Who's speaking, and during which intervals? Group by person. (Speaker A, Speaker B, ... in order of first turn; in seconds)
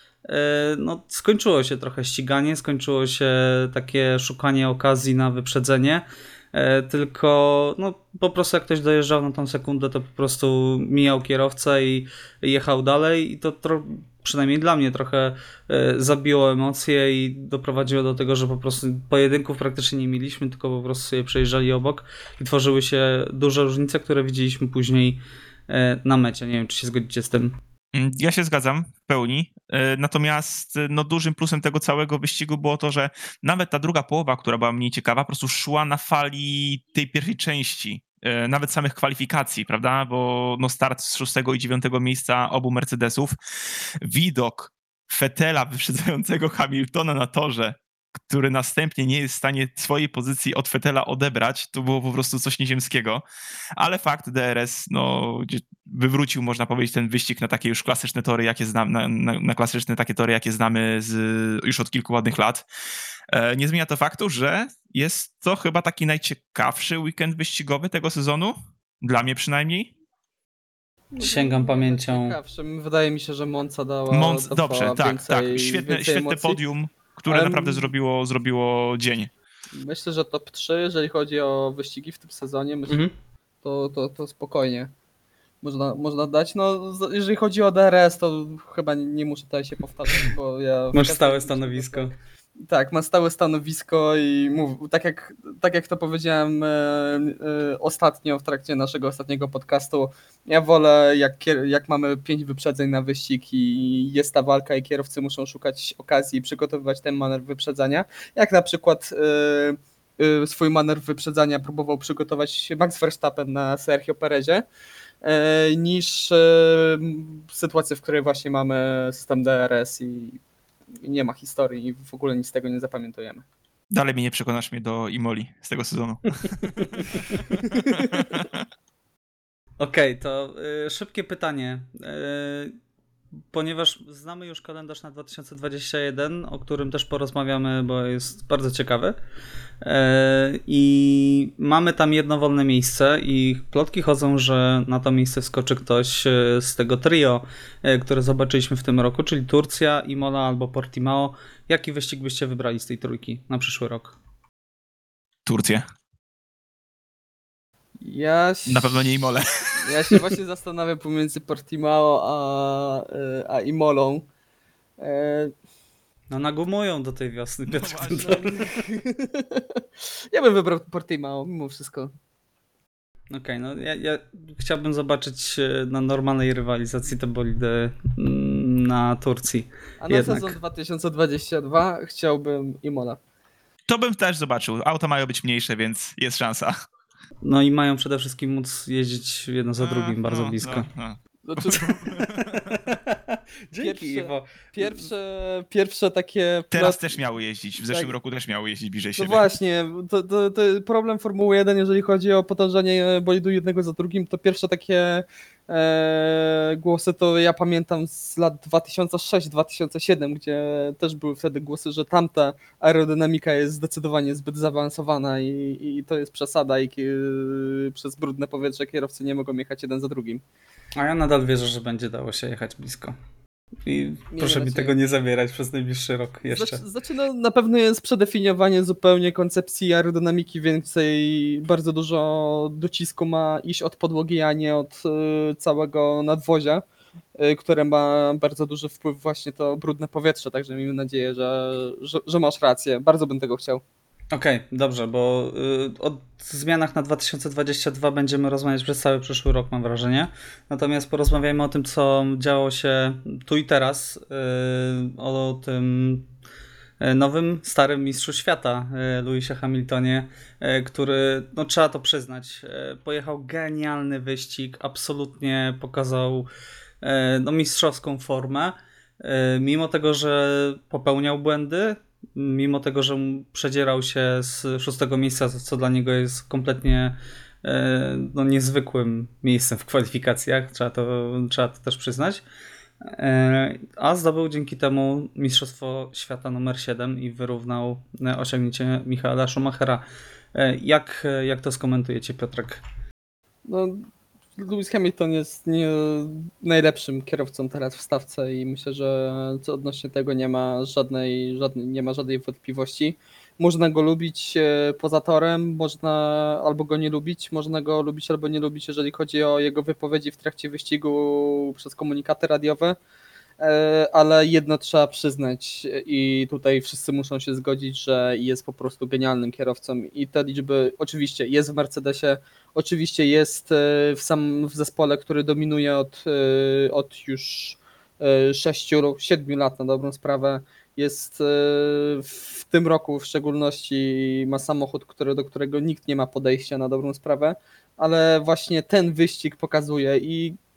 Speaker A: 0.3-27.6, 71.2-72.3, 82.9-83.1, 90.9-92.1, 126.7-127.2, 129.8-132.7, 133.5-139.2, 139.8-154.2, 166.3-168.7, 173.3-180.5, 187.4-190.9, 192.2-194.9, 220.9-223.2, 223.8-226.8, 244.3-256.3, 257.0-266.5, 267.0-282.4, 283.0-290.0, 290.5-292.8
Speaker B: 27.9-43.4, 44.0-53.2, 53.8-62.6, 63.3-69.9, 74.1-79.3, 123.9-126.8, 127.4-128.6, 155.4-155.8, 158.7-160.2, 167.7-168.5, 183.8-186.7, 189.8-192.7, 196.7-199.4
Speaker C: 71.1-76.6, 77.3-77.8, 79.7-83.0, 83.6-84.9, 85.6-92.2, 92.7-114.6, 115.2-120.4, 121.0-123.4, 127.6-128.2, 158.0-159.1, 159.8-164.2, 165.0-165.5, 168.0-172.1, 180.0-183.2, 191.4-191.9, 193.8-197.2, 199.2-220.4, 224.3-224.9, 226.5-236.8, 237.4-243.8, 293.6-313.0, 313.6-340.6